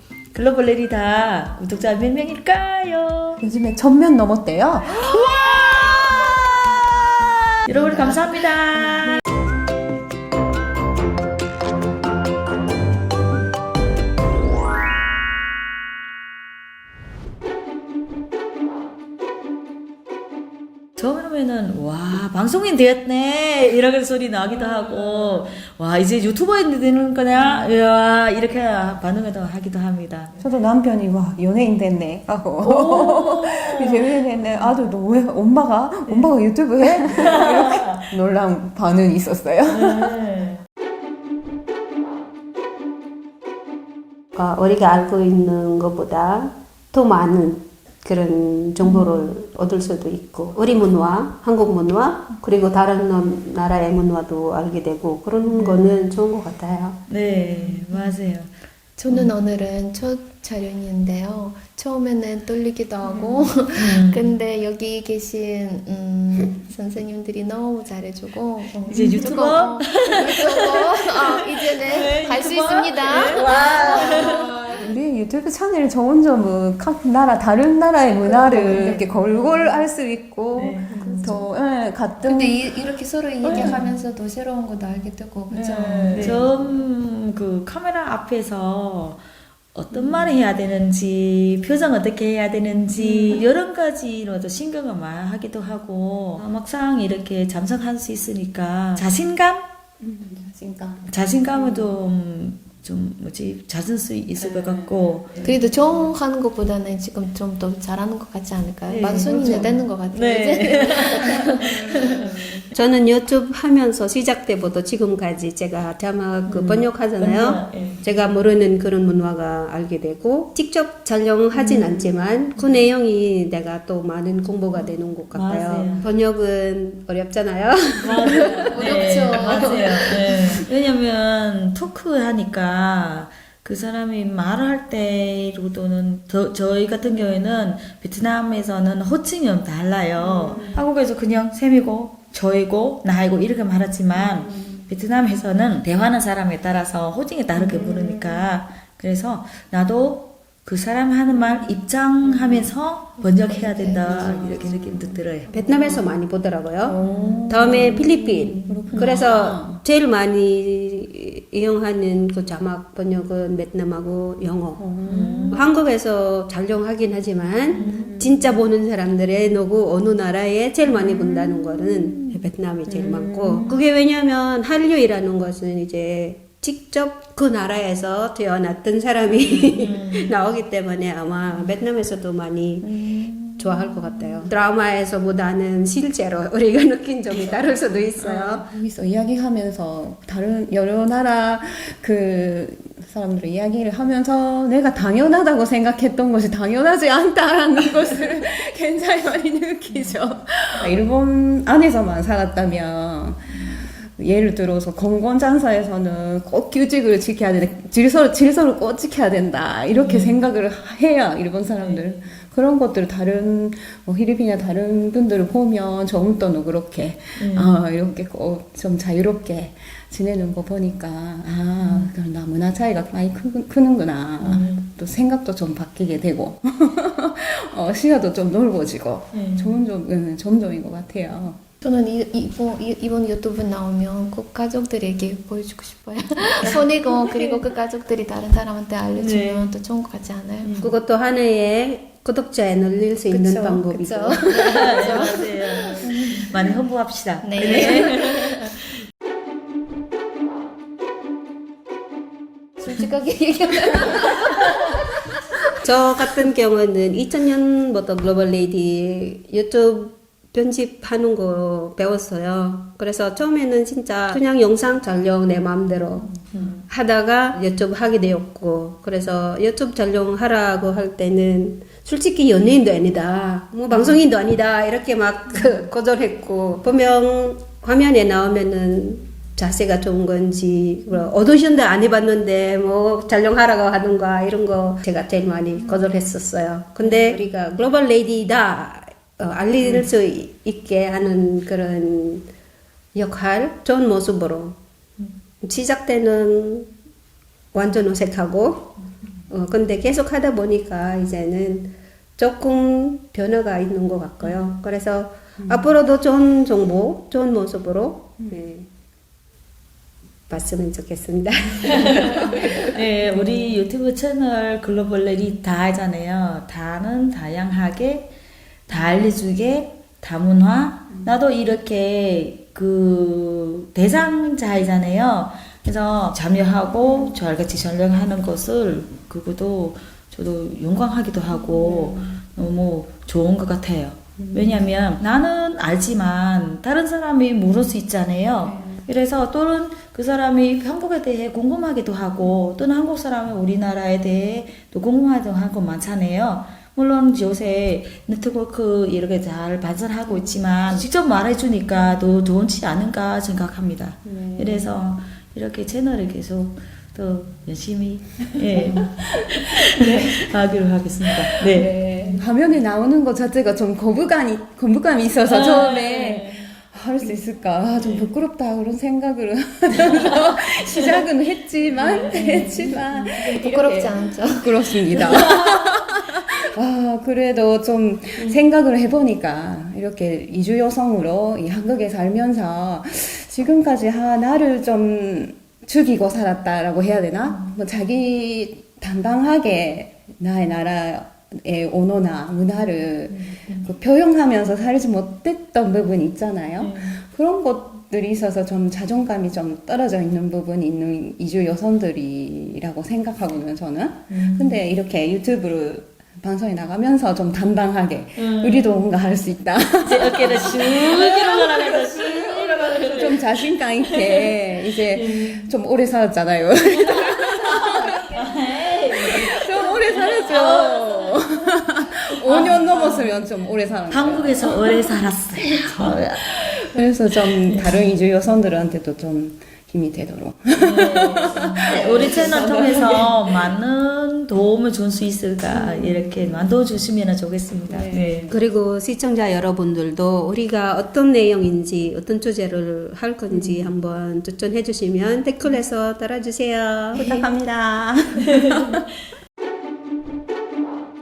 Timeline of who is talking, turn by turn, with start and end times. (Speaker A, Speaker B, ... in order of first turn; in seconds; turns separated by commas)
Speaker A: 0.3-3.4, Speaker B: 3.4-5.1, Speaker A: 5.0-6.3, Speaker A: 7.6-9.2, Speaker A: 20.9-30.3, Speaker B: 24.5-25.0, Speaker B: 30.4-40.2, Speaker A: 32.6-34.2, Speaker A: 37.0-38.0, Speaker A: 39.7-40.6, Speaker C: 44.3-57.0, Speaker A: 57.1-58.5, Speaker D: 57.3-58.1, Speaker D: 59.0-74.9, Speaker A: 63.7-64.3, Speaker A: 68.9-74.5, Speaker B: 74.8-82.8, Speaker D: 78.2-79.7, Speaker A: 80.5-81.0, Speaker D: 80.9-81.5, Speaker D: 82.2-86.4, Speaker A: 83.5-83.9, Speaker B: 83.5-83.8, Speaker B: 85.5-86.4, Speaker A: 86.1-89.2, Speaker A: 89.7-99.7, Speaker B: 93.0-93.4, Speaker B: 100.0-101.9, Speaker A: 101.1-105.6, Speaker B: 104.4-105.0, Speaker D: 105.4-112.6, Speaker A: 108.9-112.6, Speaker C: 112.7-129.8, Speaker A: 116.5-118.0, Speaker A: 121.6-122.0, Speaker A: 125.3-126.1, Speaker A: 128.0-155.5, Speaker D: 128.2-130.2, Speaker B: 140.2-140.8, Speaker B: 144.4-144.8, Speaker B: 147.6-148.4, Speaker D: 153.8-154.4, Speaker B: 154.1-154.8, Speaker C: 155.5-156.9, Speaker B: 155.5-156.2, Speaker B: 156.8-159.8, Speaker A: 157.0-157.8, Speaker C: 157.5-164.9, Speaker A: 158.9-159.2, Speaker B: 164.8-165.6, Speaker A: 165.1-165.7, Speaker C: 165.5-182.8, Speaker B: 167.7-168.6, Speaker A: 167.7-168.2, Speaker B: 170.9-173.7, Speaker A: 173.5-173.8, Speaker A: 179.8-180.3, Speaker B: 182.8-184.5, Speaker C: 183.6-188.7, Speaker B: 188.2-231.6, Speaker A: 209.9-210.4, Speaker A: 211.7-212.2, Speaker A: 217.4-217.8, Speaker A: 221.8-222.1, Speaker A: 224.4-224.9, Speaker A: 229.3-229.8, Speaker D: 231.8-240.7, Speaker A: 239.1-239.7, Speaker A: 240.6-240.9, Speaker C: 240.8-244.6, Speaker D: 243.3-246.5, Speaker A: 244.6-248.6, Speaker D: 247.4-248.7, Speaker D: 252.8-255.6, Speaker C: 255.8-292.5, Speaker A: 266.5-266.8, Speaker B: 287.0-287.4, Speaker C: 293.1-294.8, Speaker C: 295.6-296.9, Speaker C: 297.7-298.9, Speaker C: 299.5-308.9, Speaker B: 305.6-305.9, Speaker B: 308.4-308.6, Speaker C: 310.5-312.9, Speaker A: 311.9-318.3, Speaker B: 313.3-313.7, Speaker A: 318.9-361.9, Speaker B: 334.4-334.9, Speaker B: 354.2-354.9, Speaker B: 358.6-360.3, Speaker B: 361.4-418.4, Speaker A: 365.4-366.7, Speaker A: 368.0-368.3, Speaker D: 372.3-374.7, Speaker A: 372.4-372.6, Speaker A: 375.6-375.9, Speaker A: 396.8-397.1, Speaker A: 404.3-404.8, Speaker A: 408.4-408.9, Speaker A: 410.0-414.5, Speaker A: 415.1-415.7, Speaker A: 417.0-421.5, Speaker B: 419.2-425.1, Speaker A: 422.3-423.3, Speaker A: 424.1-426.4, Speaker B: 425.7-433.5, Speaker A: 427.7-428.0, Speaker A: 430.8-438.5, Speaker B: 435.7-436.7, Speaker B: 437.9-438.5, Speaker C: 438.5-447.3, Speaker B: 443.5-443.9, Speaker B: 447.1-449.0